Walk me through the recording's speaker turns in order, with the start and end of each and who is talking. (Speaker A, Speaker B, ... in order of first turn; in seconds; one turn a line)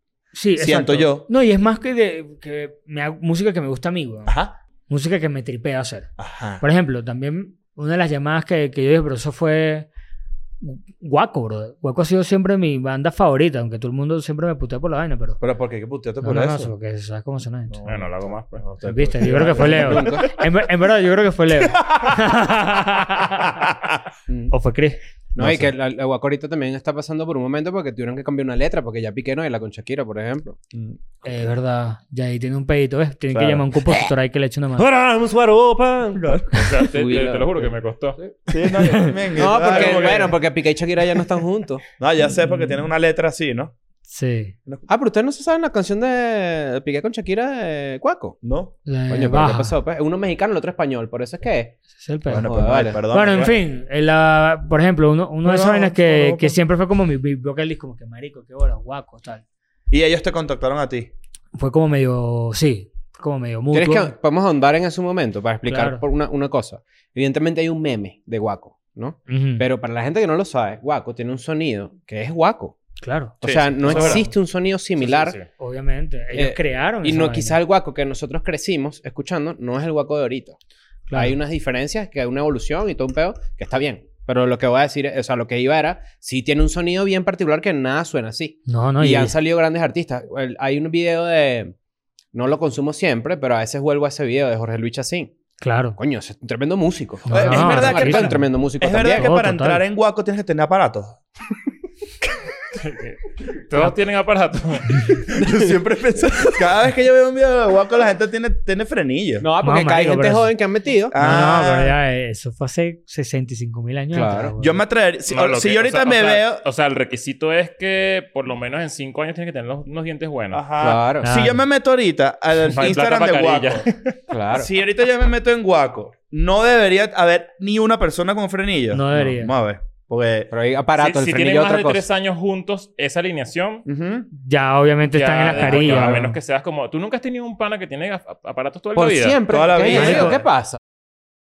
Speaker A: 0.3-4.3
Speaker B: 0.6-1.3
Speaker B: 4.3-4.5
Speaker A: 4.9-9.9
Speaker B: 6.2-6.6
Speaker A: 10.6-15.4
Speaker B: 15.4-16.7
Speaker A: 16.2-18.0
Speaker B: 17.7-20.2
Speaker C: 17.8-18.6
Speaker A: 18.8-23.6
Speaker D: 19.2-20.3
Speaker B: 21.7-22.4
Speaker B: 23.4-24.0
Speaker D: 24.3-24.5
Speaker A: 24.5-25.0
Speaker D: 25.3-30.6
Speaker B: 25.4-25.7
Speaker B: 30.7-31.3
Speaker A: 31.2-34.9
Speaker B: 33.3-33.6
Speaker D: 34.8-38.3
Speaker B: 36.2-36.6
Speaker C: 36.5-38.2
Speaker B: 38.5-40.4
Speaker A: 38.6-39.2
Speaker D: 39.3-41.8
Speaker C: 39.8-40.2
Speaker B: 42.0-43.7
Speaker A: 44.1-44.5
Speaker D: 44.9-48.4
Speaker B: 48.4-48.7
Speaker A: 48.9-49.8
Speaker D: 49.1-53.0
Speaker A: 52.0-59.4
Speaker B: 52.3-53.5
Speaker B: 55.4-56.5
Speaker B: 59.9-61.1
Speaker A: 61.5-64.1
Speaker D: 63.7-72.7
Speaker A: 65.6-66.0
Speaker A: 69.3-69.7
Speaker A: 73.0-74.3
Speaker D: 73.4-75.4
Speaker B: 73.4-74.2
Speaker C: 75.0-75.5
Speaker A: 75.6-77.6
Speaker D: 76.3-80.6
Speaker A: 81.1-81.3
Speaker D: 81.1-91.7
Speaker A: 88.7-89.3
Speaker D: 92.3-95.3
Speaker A: 95.6-96.0
Speaker D: 96.0-99.3
Speaker A: 97.2-98.4
Speaker B: 97.3-101.2
Speaker A: 99.1-99.8
Speaker C: 102.8-105.1
Speaker B: 105.0-109.5
Speaker D: 105.4-105.7
Speaker D: 109.4-111.4
Speaker A: 109.6-110.5
Speaker B: 111.1-111.9
Speaker A: 111.2-114.8
Speaker D: 114.1-114.5
Speaker B: 114.6-116.6
Speaker C: 115.3-120.7
Speaker B: 120.5-123.8
Speaker D: 120.8-121.3
Speaker A: 121.2-121.6
Speaker C: 122.6-124.1
Speaker D: 124.3-124.7
Speaker B: 124.5-130.5
Speaker A: 128.9-129.5
Speaker D: 130.5-132.0
Speaker C: 130.9-133.8
Speaker B: 133.9-134.2
Speaker A: 134.3-136.4
Speaker C: 135.1-139.4
Speaker D: 135.6-136.2
Speaker D: 138.9-140.8
Speaker B: 139.5-140.4
Speaker A: 139.9-140.3